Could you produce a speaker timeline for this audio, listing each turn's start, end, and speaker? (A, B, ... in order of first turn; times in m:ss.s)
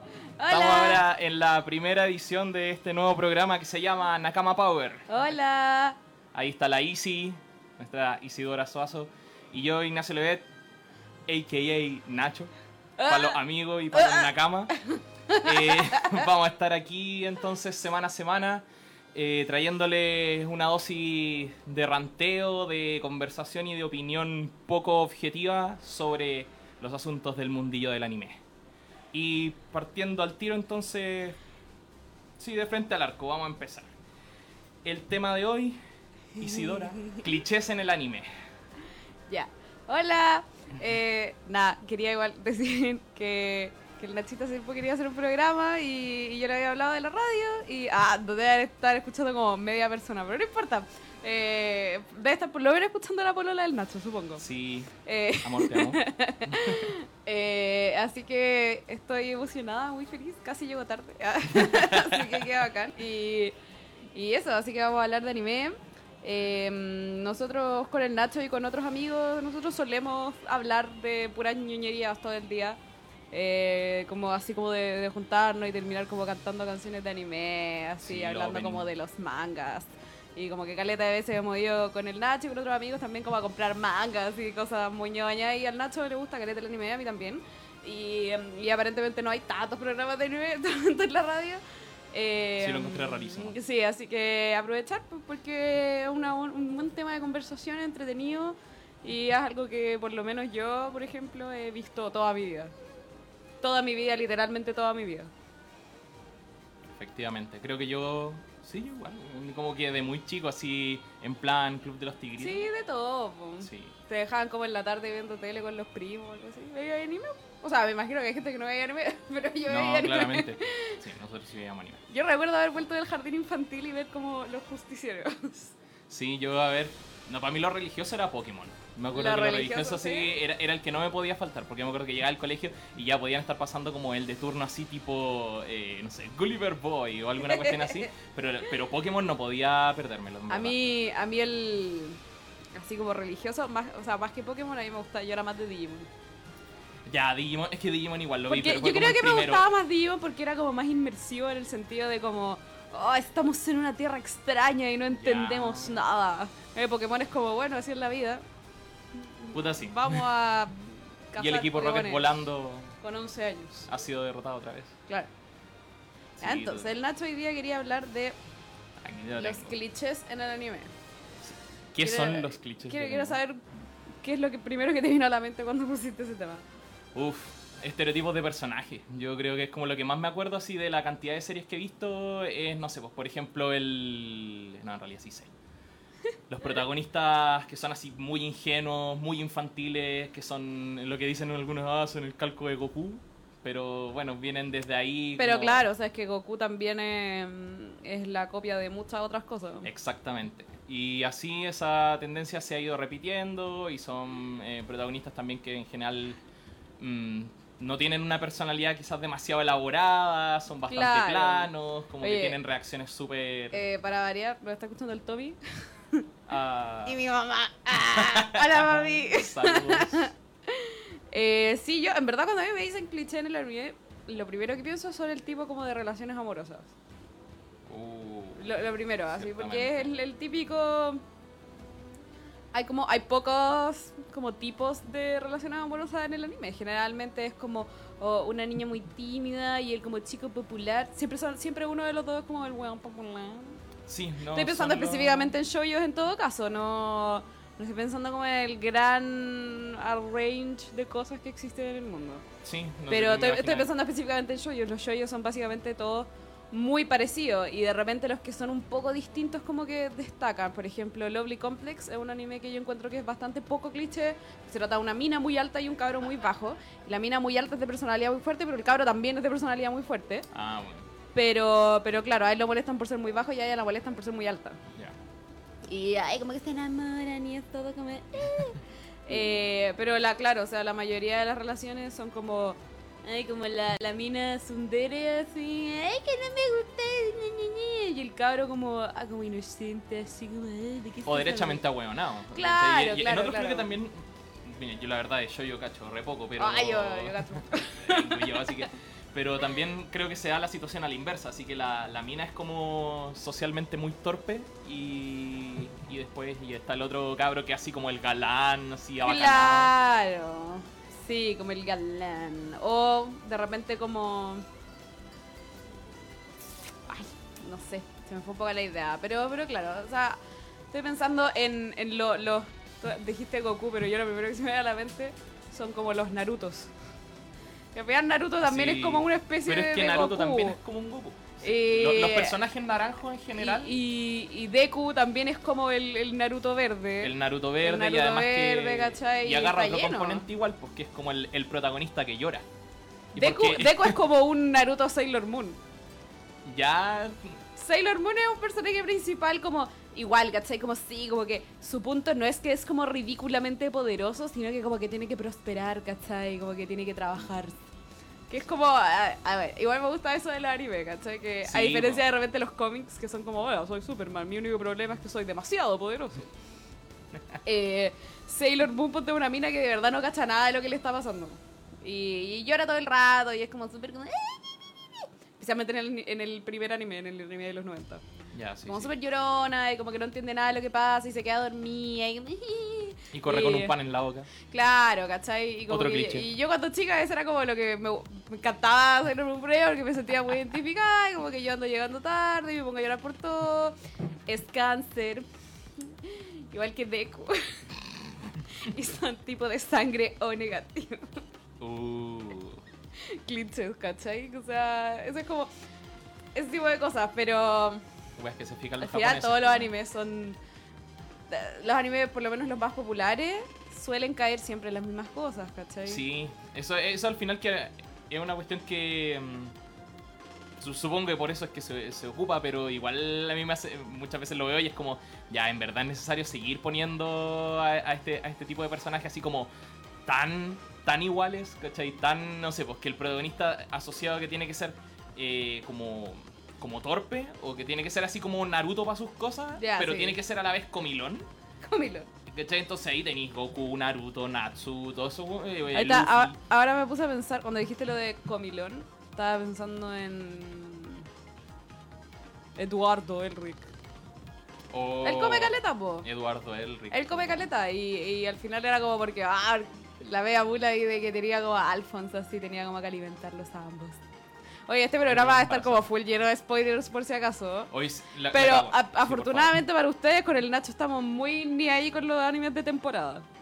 0:00.4-0:01.0 A
0:00.5-0:05.1 B
0:05.1-0:06.0 A
0:06.3-0:10.4 B
0:11.3-0:12.5 B
0:13.0-0:13.4 A
0:13.0-0:14.7 B
0:13.9-0:16.2 A
0:15.4-0:28.4 B
0:29.1-0:31.4 B
0:32.4-0:33.9 B
0:34.8-0:35.8 B
0:36.4-0:38.3 B
0:36.4-0:37.2 A
0:39.3-0:54.4 A
0:54.4-0:54.9 B
0:55.0-1:03.5 A
0:55.4-0:56.9 B
1:01.5-1:02.4 B
1:04.1-1:12.8 A
1:13.3-1:31.6 A
1:18.0-1:18.9 B
1:32.1-1:42.7 A
1:32.6-1:33.6 B
1:43.6-1:45.3 A
1:46.9-1:52.7 B
1:52.4-2:01.0 A
1:53.6-1:53.9 B
1:59.6-2:02.0 B
2:02.1-2:05.7 A
2:06.1-2:20.8 B
2:09.1-2:10.3 A
2:17.4-2:18.1 A
2:20.5-2:22.2 A
2:22.7-2:26.1 A
2:27.0-2:29.7 B
2:28.5-2:38.4 A
2:35.1-2:36.0 B
2:39.1-2:42.3 A
2:39.5-2:40.2 B
2:41.4-2:42.9 B
2:43.0-2:43.8 A
2:43.8-2:44.9 B
2:46.4-2:46.9 B
2:46.4-2:48.4 A
2:49.0-2:49.8 B
2:49.4-2:50.9 A
2:51.4-2:53.4 B
2:52.0-2:53.6 A
2:54.2-2:56.6 A
2:57.1-3:05.5 B
3:06.5-3:15.8 B
3:15.4-3:19.9 A
3:19.8-3:26.4 B
3:27.0-3:33.8 B
3:30.9-3:31.7 A
3:32.2-3:32.6 A
3:33.7-3:36.2 A
3:36.5-3:37.2 B
3:37.0-3:46.9 A
3:37.9-3:40.3 B
3:47.9-3:48.8 B
3:48.6-3:51.2 A
3:49.3-3:50.1 B
3:52.7-4:03.8 A
4:04.1-4:05.5 B
4:04.5-4:12.4 A
4:12.6-4:13.9 B
4:13.1-4:30.5 A
4:30.5-4:31.1 B
4:31.3-4:34.8 A
4:35.9-4:51.8 A
4:51.2-5:09.9 B
4:52.5-4:53.9 A
4:56.6-4:58.7 A
5:09.2-5:14.6 A
5:17.1-5:20.4 A
5:20.9-5:26.9 A
5:27.9-5:30.8 A
5:28.6-5:34.0 B
5:31.6-5:32.5 A
5:33.6-5:40.4 A
5:37.2-5:42.6 B
5:43.3-5:44.2 B
5:43.4-5:45.8 A
5:46.6-5:47.6 B
5:47.8-5:57.8 A
5:58.5-6:06.5 A
6:01.6-6:02.2 B
6:07.6-6:18.2 A
6:18.5-6:19.1 B
6:18.8-6:23.9 A
6:23.3-6:24.5 B
6:24.7-6:35.5 A
6:25.9-6:26.5 B
6:36.0-6:37.9 A
6:38.6-6:41.4 A
6:41.8-6:42.8 B
6:43.2-6:45.7 A
6:46.5-6:48.0 A
6:48.4-6:49.9 B
6:49.0-6:50.6 A
6:51.5-6:56.2 A
6:56.0-6:59.7 B
7:00.8-7:09.7 B
7:10.2-7:21.5 B
7:19.8-7:20.4 A
7:21.8-7:22.3 A
7:22.5-7:26.6 B
7:25.9-7:31.2 A
7:32.8-7:33.8 A
7:34.9-7:37.6 B
7:35.2-7:36.3 A
7:37.1-7:44.2 A
7:44.9-7:47.9 A
7:45.3-7:46.0 B
7:47.9-7:49.8 B
7:48.5-7:53.4 A